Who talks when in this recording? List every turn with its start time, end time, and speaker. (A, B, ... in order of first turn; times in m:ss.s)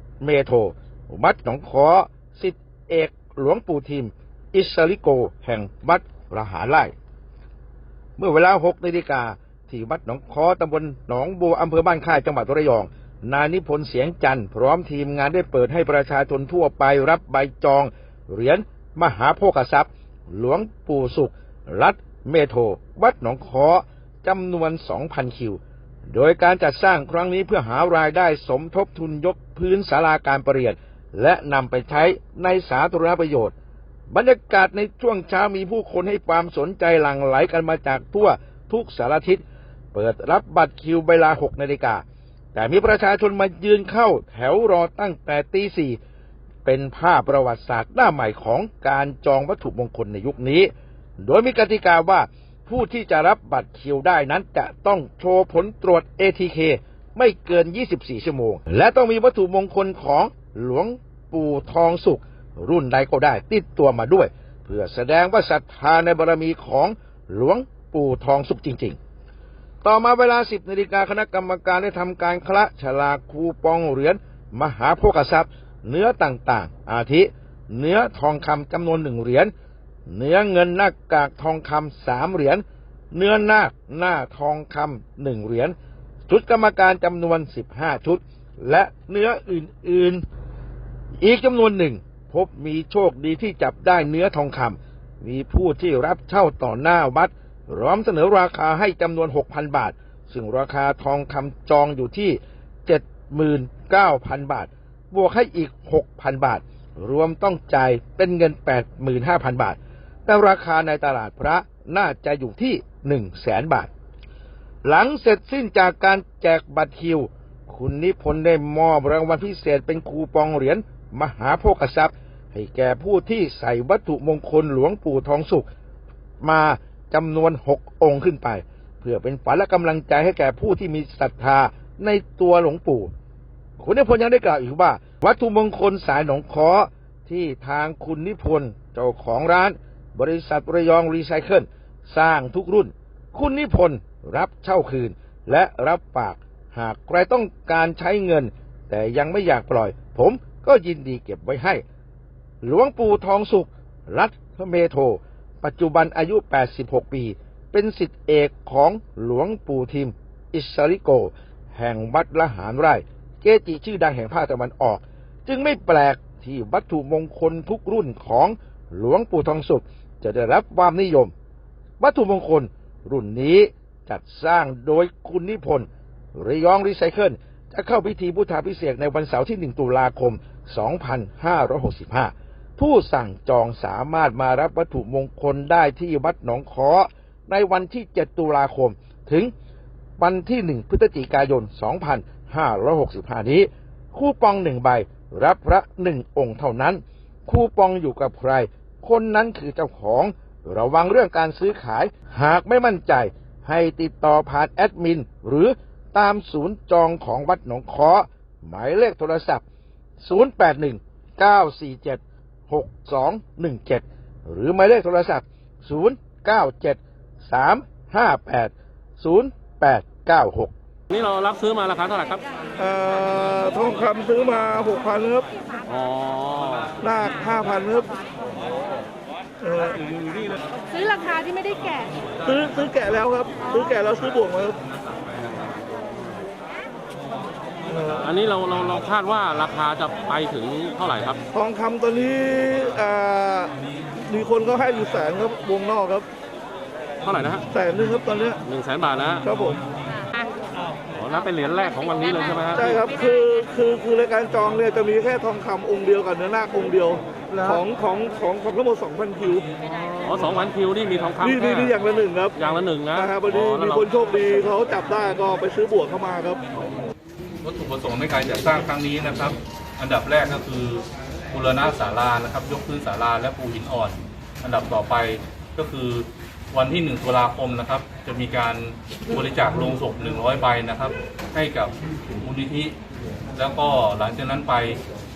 0:00.2-0:06.9 A
0:08.2-0:25.6 A
0:26.1-0:33.5 A
0:34.1-0:39.4 A
0:39.9-0:42.0 A
0:42.6-0:46.0 A
0:46.6-1:09.0 A
1:09.8-1:19.5 A
1:20.1-1:25.8 A
1:26.3-1:30.2 A
1:31.2-1:53.9 A
1:54.8-2:05.7 A
2:06.4-2:13.1 A
2:13.8-2:31.8 A
2:32.6-2:51.3 A
2:52.0-3:09.5 A
3:10.2-3:29.6 A
3:30.2-3:40.7 A
3:41.1-3:42.4 B
3:42.8-3:45.5 C
3:45.8-3:47.0 B
3:47.0-3:48.2 C
3:49.6-3:50.5 C
3:50.9-3:52.2 D
3:52.4-3:54.8 C
3:57.9-3:58.2 C
3:58.2-4:01.4 B
4:01.5-4:06.3 C
4:07.2-4:07.6 B
4:07.7-4:08.6 C
4:08.7-4:09.6 B
4:09.4-4:09.8 C
4:11.1-4:13.0 B
4:11.8-4:12.5 D
4:12.7-4:19.6 C
4:19.9-4:21.9 B
4:21.4-4:22.6 C
4:22.6-4:24.1 B
4:23.1-4:26.6 C
4:27.6-4:43.0 E
4:43.6-4:45.0 E